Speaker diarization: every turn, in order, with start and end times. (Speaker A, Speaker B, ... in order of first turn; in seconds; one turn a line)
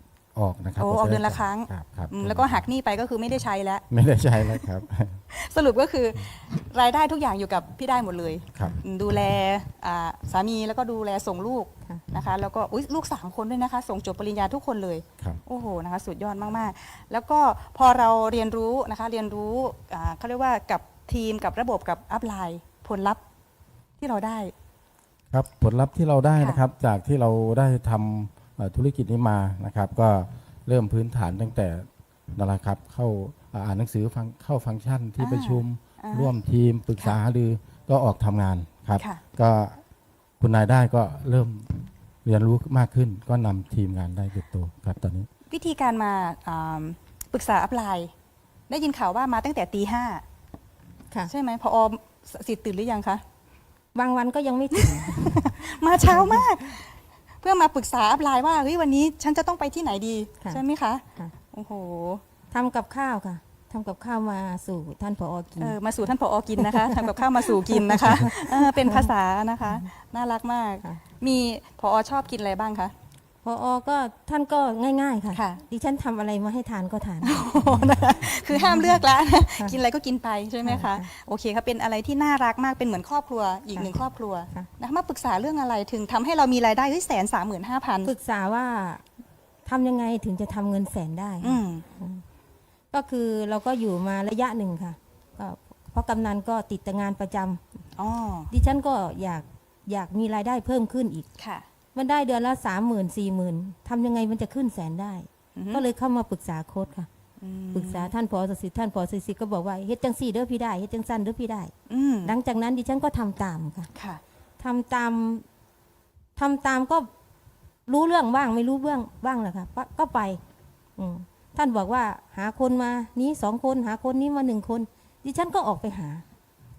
Speaker A: 0.3-2.7
Speaker B: 0.8-3.9
Speaker A: 3.9-5.2
Speaker B: 5.3-23.2
Speaker B: 24.0-24.5
Speaker A: 25.3-39.8
Speaker B: 35.2-36.3
Speaker A: 40.4-45.3
Speaker B: 45.5-48.1
Speaker B: 48.7-50.2
Speaker B: 51.3-53.2
Speaker C: 53.9-56.6
Speaker B: 54.7-62.2
Speaker C: 62.5-65.7
Speaker B: 65.6-72.9
Speaker C: 66.6-69.1
Speaker C: 73.4-77.5
Speaker B: 75.3-75.6
Speaker B: 77.2-88.1
Speaker A: 77.7-78.0
Speaker C: 78.5-79.0
Speaker C: 80.6-81.1
Speaker C: 88.0-89.0
Speaker C: 89.7-92.2
Speaker B: 91.4-91.8
Speaker C: 92.9-97.6
Speaker B: 98.0-98.5
Speaker C: 98.5-101.3
Speaker B: 101.4-101.7
Speaker C: 101.9-107.1
Speaker B: 105.5-105.8
Speaker B: 107.4-108.1
Speaker C: 107.7-111.7
Speaker B: 111.9-112.3
Speaker C: 112.2-113.9
Speaker B: 113.9-114.2
Speaker C: 114.6-115.4
Speaker C: 116.4-117.1
Speaker C: 117.9-120.4
Speaker C: 121.0-126.2